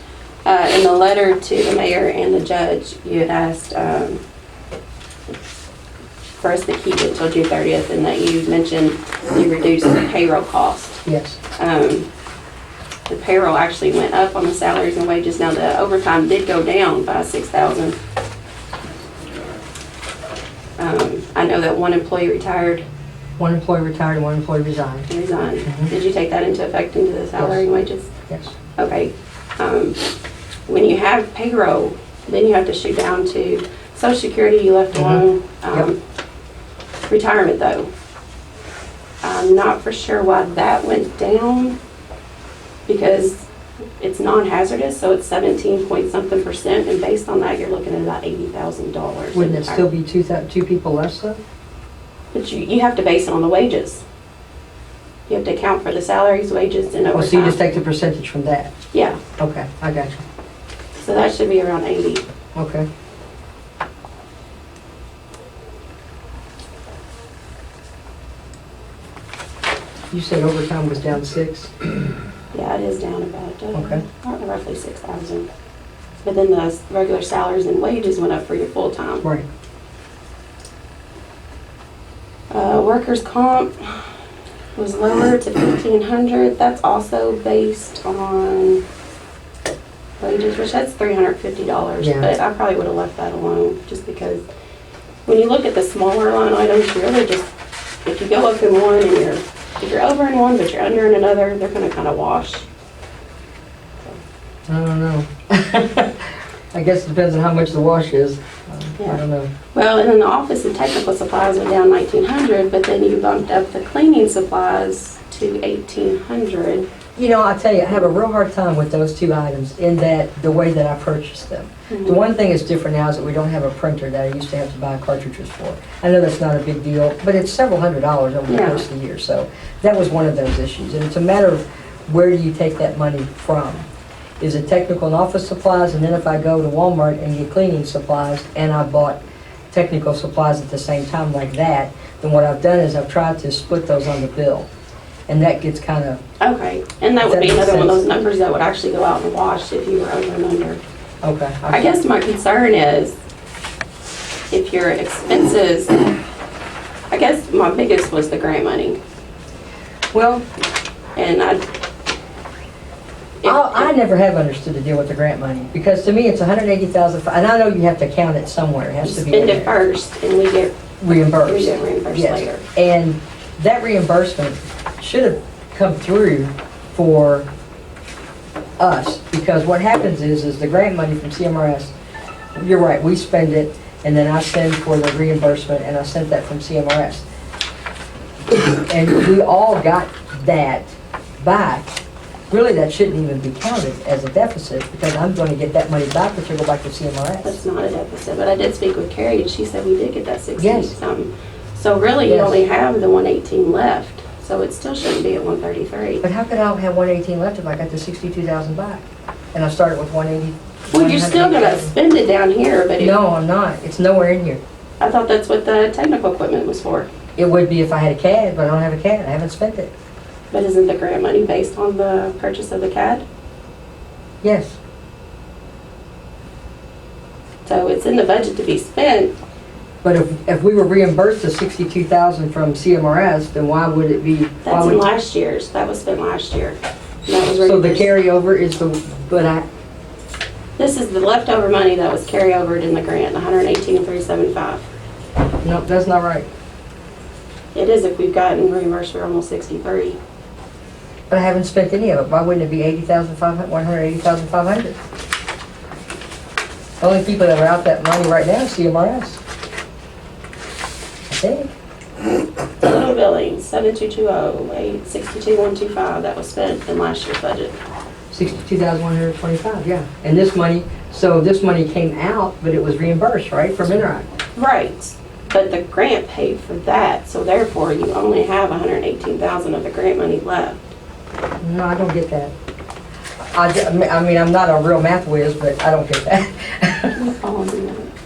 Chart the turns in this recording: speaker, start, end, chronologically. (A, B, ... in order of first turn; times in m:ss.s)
0:00.4-0:04.2 A
0:06.4-0:11.0 A
0:11.1-0:11.4 B
0:11.6-0:12.1 A
0:13.1-0:18.0 A
0:20.8-0:22.8 A
0:23.4-0:25.1 B
0:25.1-0:28.1 A
0:25.6-0:25.9 B
0:27.4-0:27.6 B
0:28.3-0:28.5 B
0:28.8-0:30.0 A
0:30.7-0:36.0 A
0:35.0-0:35.9 B
0:37.1-0:37.9 A
0:39.2-0:41.8 A
0:42.9-0:43.5 A
0:44.0-0:49.9 A
0:49.3-0:51.4 B
0:52.3-0:54.0 A
0:55.3-0:57.6 A
0:57.1-0:58.7 B
0:58.9-0:59.2 A
0:59.4-1:00.2 B
1:01.0-1:02.2 A
1:02.6-1:02.9 B
1:10.1-1:11.7 B
1:12.5-1:15.5 A
1:13.7-1:14.0 B
1:16.2-1:19.2 A
1:19.2-1:19.5 B
1:22.5-1:24.0 A
1:24.8-1:28.8 A
1:30.2-1:34.4 A
1:32.0-1:32.3 B
1:35.3-1:37.5 A
1:38.0-1:42.7 A
1:44.7-1:49.5 B
1:49.7-1:56.9 A
1:57.2-2:13.9 B
2:01.9-2:02.2 A
2:08.5-2:08.8 A
2:14.4-2:19.2 B
2:19.7-2:24.7 B
2:25.3-2:26.2 B
2:26.4-2:30.8 A
2:27.2-2:28.0 B
2:31.2-2:32.0 B
2:31.7-2:33.2 A
2:34.5-2:36.1 A
2:37.1-2:39.0 A
2:40.1-2:40.4 B
2:41.2-2:41.6 A
2:43.4-2:43.9 A
2:43.4-2:49.7 B
2:49.0-2:50.8 A
2:51.0-2:57.5 B
2:51.3-2:52.6 A
2:58.8-3:01.9 B
3:02.6-3:07.2 B
3:08.5-3:11.9 B
3:12.5-3:17.6 B
3:17.4-3:26.2 A
3:20.6-3:21.0 B
3:22.2-3:22.6 B
3:26.2-3:31.9 B
3:30.9-3:33.2 A
3:33.0-3:34.6 B
3:35.0-3:37.1 A
3:37.4-3:39.9 B
3:40.5-3:43.2 A
3:44.4-3:44.8 B
3:47.6-3:49.3 A
3:50.0-3:55.0 B
3:54.6-3:58.1 A
3:57.5-3:59.7 B
4:00.8-4:04.9 A
4:05.6-4:06.5 B
4:07.7-4:10.2 A
4:11.3-4:15.0 B
4:17.0-4:19.4 B
4:21.3-4:21.7 B
4:22.8-4:27.8 A
4:28.3-4:34.3 B
4:34.6-4:40.9 A
4:41.6-4:42.5 B
4:43.5-4:47.2 B
4:47.1-4:48.1 A